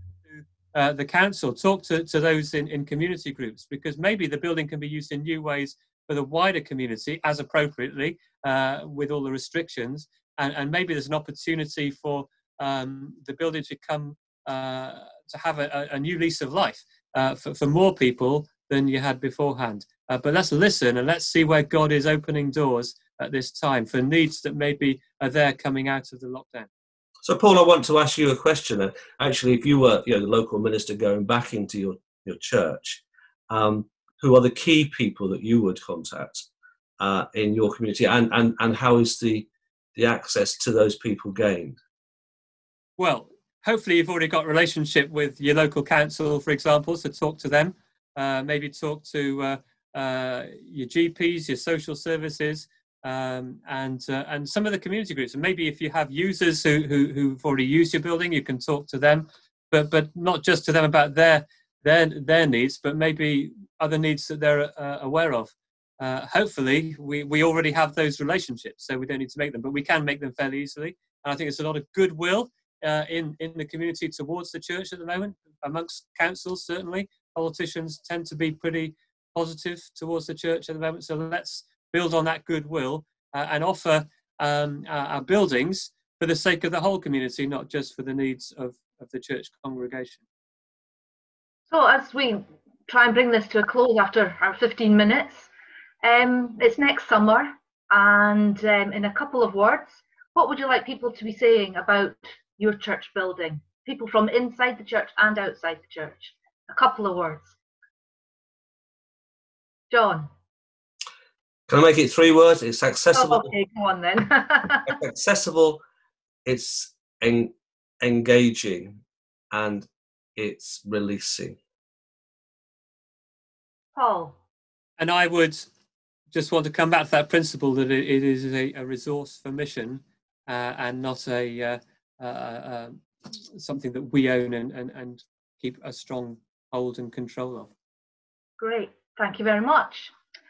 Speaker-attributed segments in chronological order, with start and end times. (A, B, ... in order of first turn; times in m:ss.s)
0:00.3-0:26.7 A
0:27.2-0:36.5 B
0:37.0-0:41.8 B
0:43.0-1:30.2 A
1:31.7-1:35.5 C
1:36.0-1:47.6 C
1:49.9-1:50.3 C
1:51.7-1:53.5 B
1:53.1-1:55.0 C
1:54.9-1:55.8 B
1:56.5-1:59.0 B
1:59.5-2:01.6 B
2:04.0-2:04.4 C
2:05.0-2:05.7 A
2:06.3-2:13.0 A
2:13.5-2:17.7 A
2:18.6-2:20.1 C